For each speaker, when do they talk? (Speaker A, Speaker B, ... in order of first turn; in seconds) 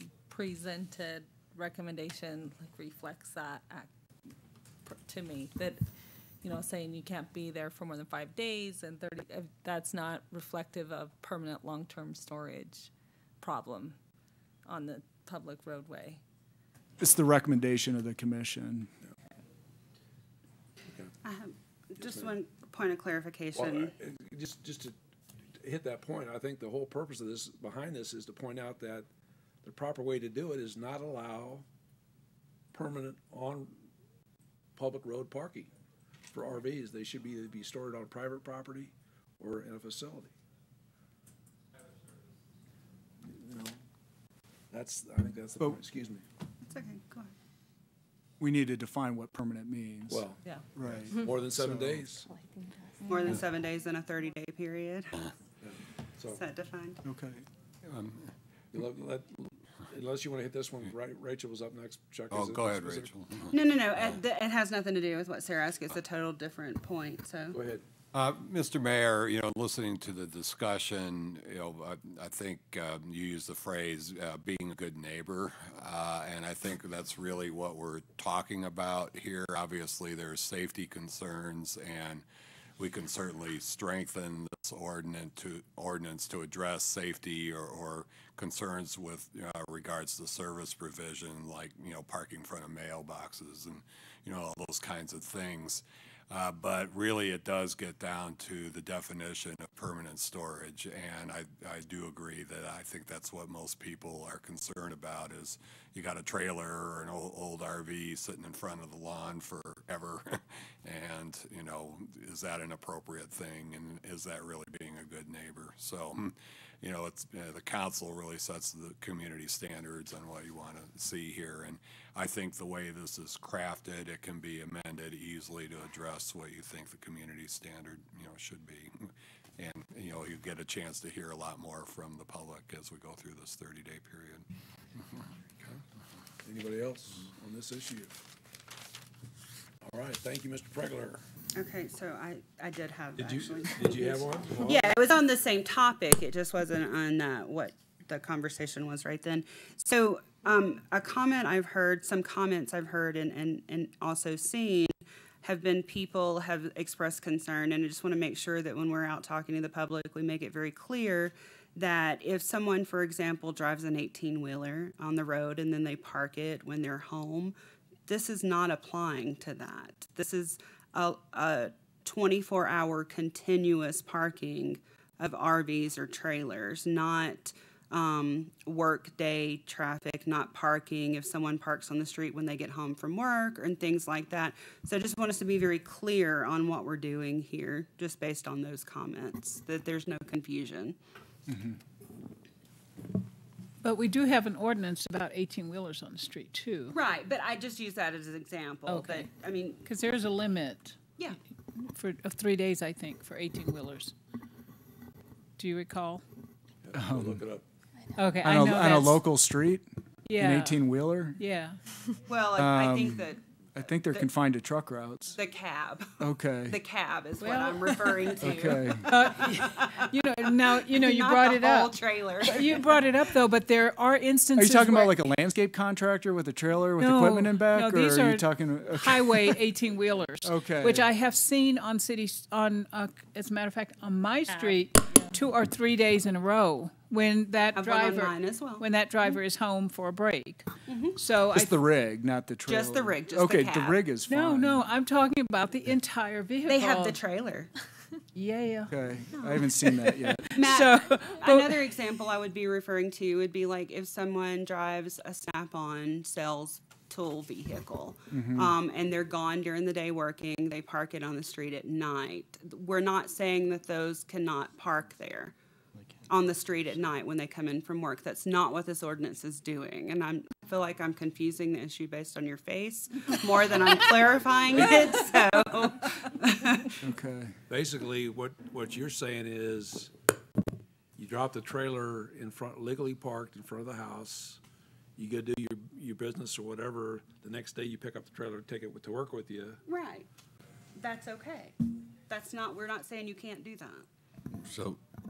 Speaker A: 0.2-3.9, 4.8-5.8, 6.4-14.0, 14.7-16.2, 53.1-53.3
Speaker B: 17.0-18.9, 48.4-50.2, 50.7-52.0, 57.0-57.4, 191.5-191.8, 206.9-207.4, 208.4-211.4, 212.6-215.4, 216.2-216.8, 218.4-219.3, 224.6-229.5, 230.4-231.1, 241.5-244.8, 248.9-250.4, 258.3-258.8, 277.0-277.6
Speaker C: 21.2-23.9, 46.6-47.3, 53.1-55.3, 56.3-57.0, 63.5-67.6, 141.5-167.5, 168.1-191.0, 196.9-199.8, 212.3-213.4, 213.9-214.3, 215.3-216.2, 216.7-223.1, 237.7-238.8, 240.9-241.2, 242.7-244.1, 246.7-247.7, 249.4-249.7, 250.6-265.5, 266.3-276.9, 289.9-290.3, 290.9-291.7, 292.3-294.1
Speaker D: 23.5-24.9, 25.6-29.1, 29.6-31.6, 32.7-33.8, 34.8-35.7, 36.3-40.3, 43.2-43.8, 44.7-46.2, 50.1-52.3, 55.6-56.4, 58.7-63.1, 67.5-67.8, 136.4-138.1, 139.8-141.2, 143.2-145.0, 206.8-207.6, 277.7-280.1, 281.1-284.6, 285.1-289.8
Speaker E: 57.8-58.3, 62.3-64.1, 68.1-82.2, 82.8-134.4, 294.6-295.0
Speaker F: 193.8-196.9, 198.8-199.3, 199.8-201.0, 201.8-204.1, 205.6-206.2, 208.1-209.2, 210.2-210.8, 211.4-211.8, 217.4-218.4, 219.0-225.2, 227.0-241.7, 244.2-247.2, 248.3-248.9, 249.9-251.9